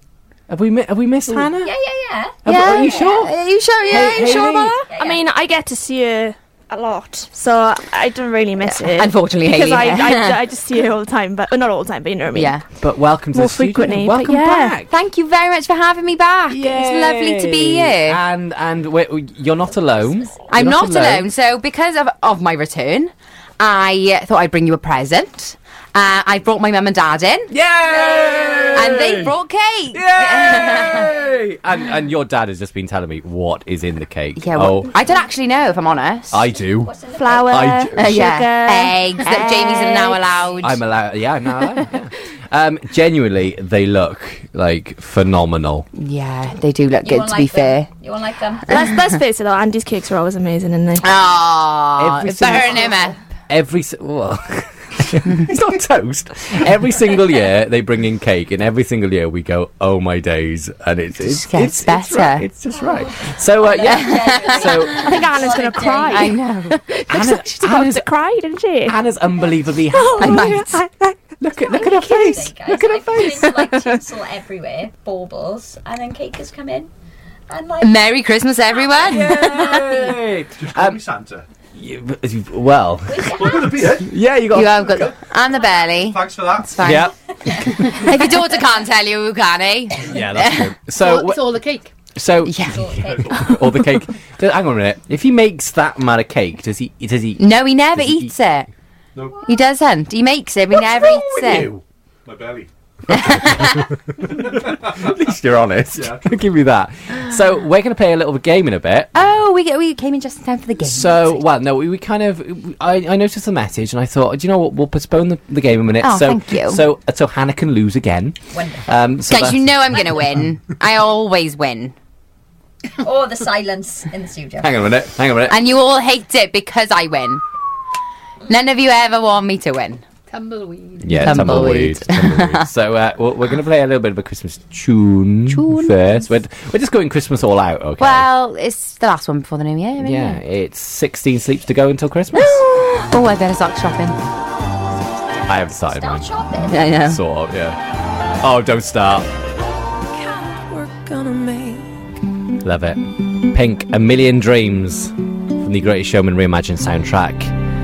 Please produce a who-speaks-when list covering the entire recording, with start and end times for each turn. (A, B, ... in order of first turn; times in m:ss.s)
0:00.5-0:01.7 A
0:01.6-0:03.2 B
0:02.4-0:03.3 A
0:02.4-0:04.7 C
0:03.8-0:04.8 A
0:03.9-0:05.2 B
0:04.0-0:12.6 D
0:08.8-0:10.4 C
0:12.3-0:12.6 C
0:12.8-0:14.9 A
0:13.3-0:14.8 D
0:14.9-0:18.2 C
0:16.5-0:21.3 A
0:20.5-0:27.5 C
0:27.5-0:29.4 A
0:27.9-0:29.0 B
0:28.7-0:31.1 C
0:29.9-0:34.9 A
0:34.4-0:36.4 C
0:36.3-0:36.9 A
0:36.7-0:37.6 B
0:37.1-0:40.4 D
0:37.4-0:38.1 A
0:38.0-0:40.8 C
0:40.6-0:45.9 A
0:46.0-0:47.9 C
0:47.0-0:48.8 B
0:48.7-0:51.1 D
0:51.0-0:53.2 C
0:52.0-0:53.0 A
0:53.5-1:05.5 A
1:01.2-1:02.5 C
1:02.8-1:06.3 B
1:03.8-1:04.8 C
1:04.9-1:09.0 D
1:06.1-1:06.8 C
1:07.1-1:08.0 A
1:08.8-1:10.7 A
1:09.9-1:11.1 D
1:10.2-1:10.8 C
1:11.4-1:13.7 A
1:11.6-1:16.9 B
1:17.5-1:18.0 B
1:17.8-1:19.9 C
1:19.0-1:21.0 A
1:20.6-1:21.4 E
1:21.7-1:25.1 A
1:23.1-1:23.6 B
1:23.2-1:24.2 E
1:24.5-1:27.1 C
1:24.8-1:25.2 E
1:25.7-1:27.0 E
1:26.8-1:28.2 A
1:27.8-1:30.7 C
1:30.1-1:31.5 A
1:30.9-1:31.9 F
1:32.1-1:38.3 A
1:32.4-1:32.9 C
1:32.7-1:33.3 B
1:37.4-1:38.7 C
1:39.1-1:39.4 E
1:39.4-1:41.7 C
1:40.7-1:42.7 E
1:43.1-1:49.1 A
1:43.1-1:43.8 C
1:44.2-1:45.3 E
1:45.9-1:46.4 E
1:49.1-1:51.4 C
1:50.8-2:00.0 A
1:56.0-1:56.8 C
1:58.5-1:58.8 B
1:59.3-2:01.9 C
2:03.0-2:04.7 B
2:04.6-2:05.6 A
2:05.5-2:07.4 C
2:08.5-2:10.0 C
2:10.3-2:11.4 F
2:11.0-2:18.3 A
2:11.2-2:12.6 C
2:15.5-2:16.2 C
2:18.0-2:20.4 C
2:20.0-2:22.6 A
2:22.3-2:24.2 C
2:25.4-2:26.3 A
2:25.8-2:27.0 B
2:26.7-2:27.2 C
2:27.0-2:27.8 A
2:28.4-2:29.3 A
2:30.9-2:31.6 F
2:32.6-2:37.5 A